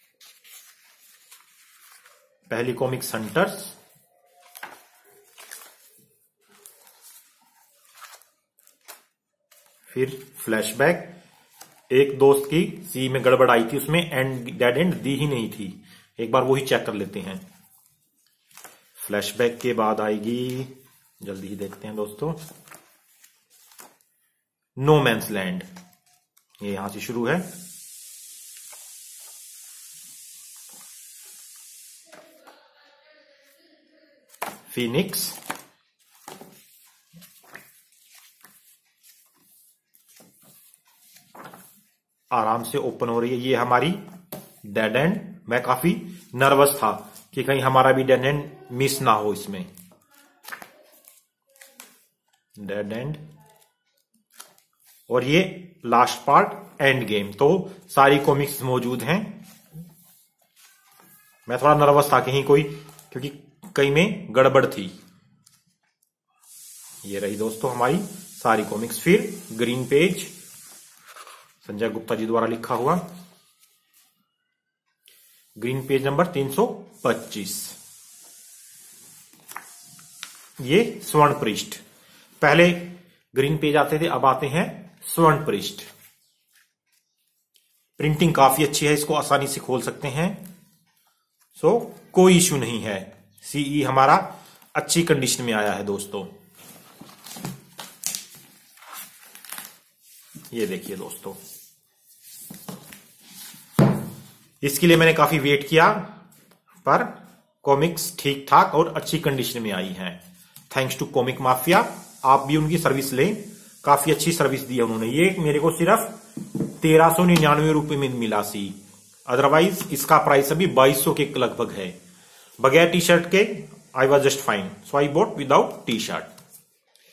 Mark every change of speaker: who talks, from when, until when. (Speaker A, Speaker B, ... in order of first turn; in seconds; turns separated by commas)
Speaker A: 2.5-3.8, Speaker A: 9.9-11.1, Speaker A: 11.9-17.4, Speaker A: 19.0-22.4, Speaker A: 24.8-25.7, Speaker A: 26.6-27.5, Speaker A: 34.7-35.4, Speaker A: 42.3-44.0, Speaker A: 44.6-49.7, Speaker A: 52.6-53.2, Speaker A: 55.1-59.4, Speaker A: 61.5-64.9, Speaker A: 67.0-70.3, Speaker A: 71.6-73.0, Speaker A: 75.6-77.8, Speaker A: 80.6-81.8, Speaker A: 82.4-85.9, Speaker A: 88.0-90.5, Speaker A: 91.6-96.3, Speaker A: 100.5-101.4, Speaker A: 104.6-106.1, Speaker A: 106.8-122.0, Speaker A: 122.6-126.3